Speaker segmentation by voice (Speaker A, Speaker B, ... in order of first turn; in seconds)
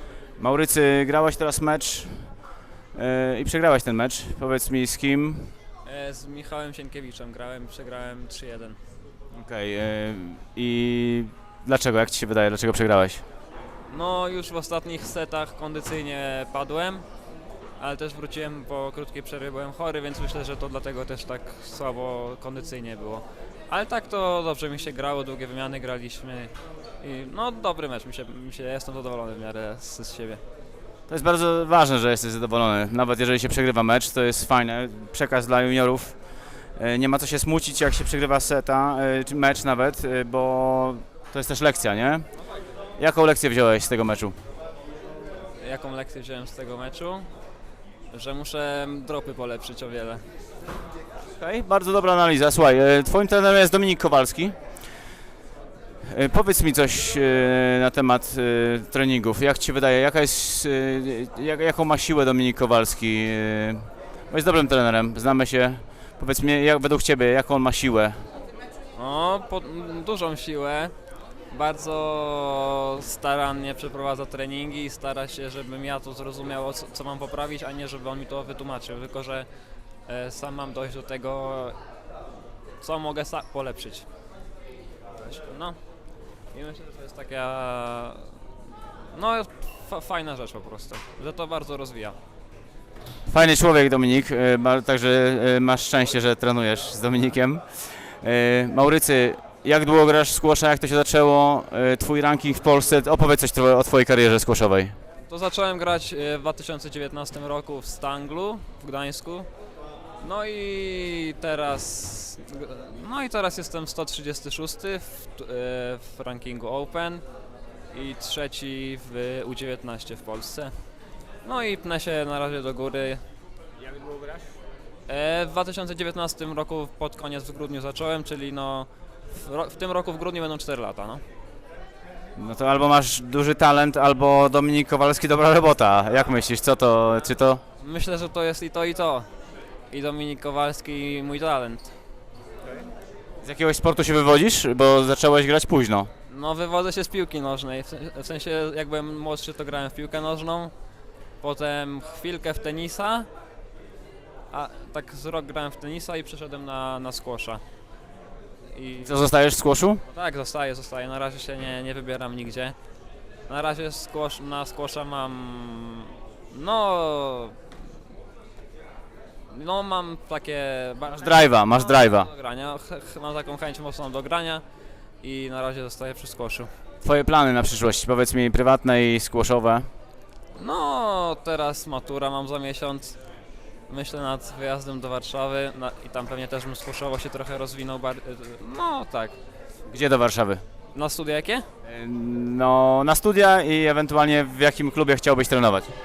Speaker A: 0.4-2.4, 2.9-5.5, 9.3-13.2, 31.1-36.2, 36.8-42.3, 43.0-44.4, 51.4-54.6, 56.1-68.3, 93.3-105.0, 123.8-124.4, 132.4-137.6, 143.4-146.1, 159.0-160.0, 171.2-172.3, 177.0-179.9, 189.9-190.6, 191.8-195.9
Speaker B: 5.8-8.8, 13.9-17.1, 17.8-30.4, 45.6-47.3, 48.1-50.2, 69.0-70.9, 71.5-79.5, 80.1-81.8, 82.8-84.1, 85.2-85.8, 86.5-88.6, 89.1-92.2, 105.3-109.5, 110.2-117.2, 117.9-120.8, 121.4-123.2, 125.1-131.2, 137.8-139.3, 139.9-142.0, 146.3-150.7, 151.4-153.3, 154.5-157.6, 158.7-159.2, 160.1-162.8, 163.5-167.8, 169.5-174.6, 175.2-176.7, 180.6-183.2, 183.9-189.4, 190.9-191.7